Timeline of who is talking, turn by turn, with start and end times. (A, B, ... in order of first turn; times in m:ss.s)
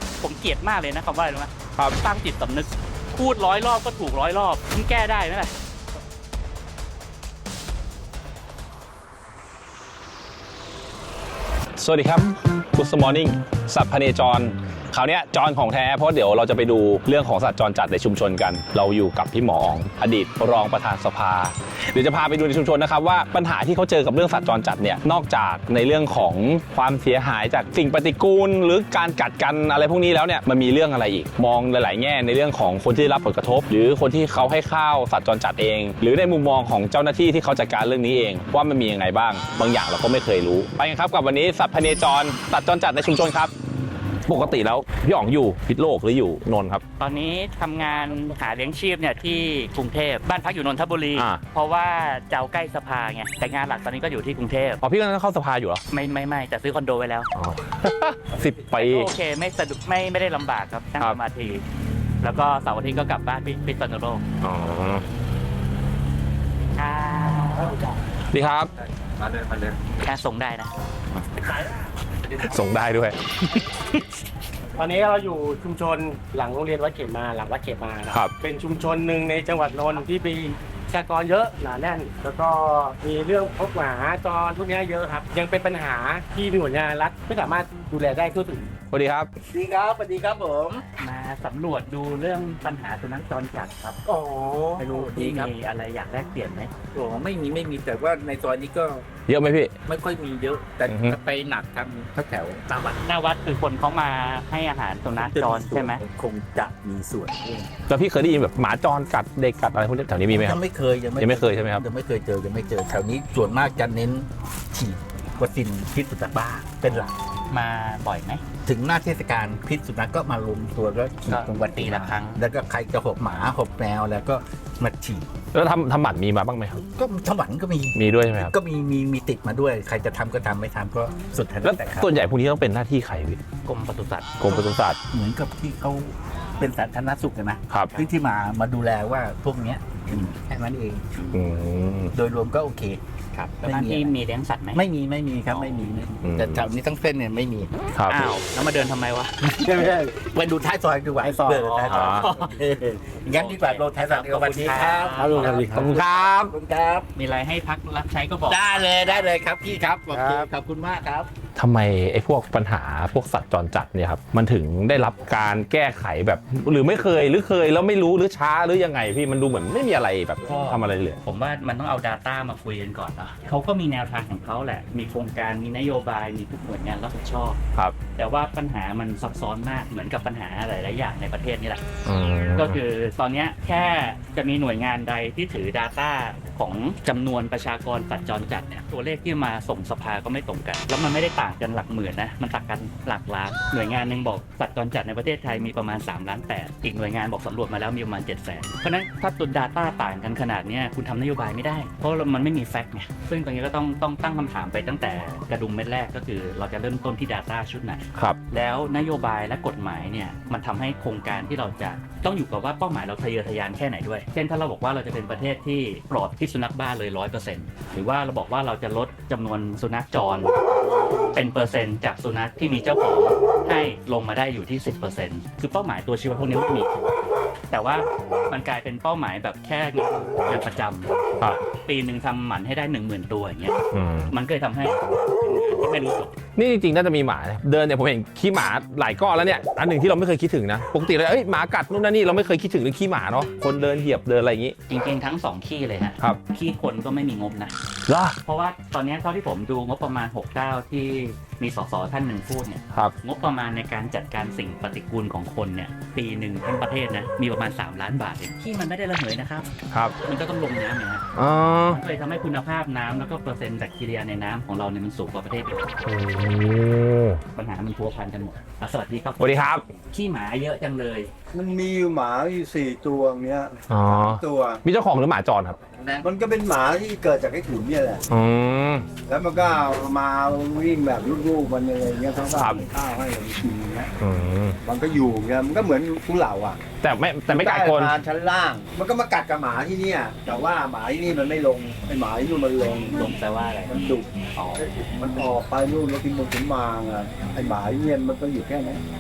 0:00.2-0:05.5 A
0:11.8-0:43.5 B
0:44.3-0:46.8 B
0:47.0-0:54.8 A
0:51.2-0:51.4 B
0:54.8-0:55.8 B
0:55.9-0:57.3 A
0:57.4-0:59.1 B
0:58.7-1:01.6 A
1:02.2-1:04.2 A
1:04.4-1:05.0 B
1:06.8-1:07.9 A
1:08.3-1:08.7 B
1:10.0-1:10.7 A
1:12.4-1:13.2 B
1:14.8-1:28.7 C
1:28.9-1:29.3 B
1:29.5-1:30.8 D
1:31.0-1:34.0 A
1:34.1-1:35.5 D
1:34.8-1:36.7 A
1:36.9-1:39.0 D
1:39.3-1:39.7 B
1:39.9-1:43.0 D
1:40.9-1:41.2 B
1:43.0-1:46.0 A
1:45.1-1:47.7 D
1:47.9-1:50.6 B
1:50.3-1:57.1 D
1:51.2-1:51.8 B
1:57.5-1:58.4 A
1:58.6-2:05.3 D
2:01.3-2:02.4 A
2:05.5-2:06.8 B
2:07.0-2:12.1 D
2:07.9-2:08.5 B
2:11.6-2:13.4 B
2:13.6-2:14.4 A
2:14.4-2:15.0 B
2:15.1-2:21.0 D
2:21.2-2:21.4 A
2:21.3-2:22.1 B
2:22.1-2:23.0 D
2:23.3-2:24.8 A
2:23.6-2:24.1 D
2:24.7-2:27.7 D
2:25.4-2:26.1 A
2:26.2-2:26.7 B
2:28.0-2:28.3 B
2:28.1-2:29.4 A
2:29.4-2:37.1 D
2:31.5-2:32.6 A
2:31.9-2:32.2 B
2:33.2-2:35.9 A
2:35.7-2:36.5 B
2:37.2-2:39.2 A
2:38.5-2:41.3 D
2:41.6-2:51.2 B
2:50.4-2:57.6 A
2:58.2-3:01.8 A
3:02.1-3:02.8 B
3:02.6-3:40.5 A
3:41.3-3:47.0 A
3:47.7-3:51.1 A
3:51.7-3:53.8 A
3:53.9-3:54.3 B
3:54.3-3:56.4 A
3:56.6-4:04.8 B
4:04.9-4:07.7 A
4:08.1-4:08.4 B
4:08.4-4:19.7 A
4:20.2-4:21.2 A
4:21.4-4:22.0 B
4:21.9-4:26.0 A
4:26.0-4:27.4 B
4:27.6-4:31.3 A
4:29.4-4:29.8 B
4:31.5-4:34.8 E
4:33.9-4:35.8 B
4:36.0-4:36.3 A
4:36.2-4:38.2 E
4:38.3-4:39.1 B
4:39.3-4:44.1 E
4:44.2-4:44.8 B
4:44.8-4:46.8 E
4:47.0-4:48.1 B
4:47.5-4:53.3 E
4:53.1-4:54.8 A
4:53.9-4:59.0 E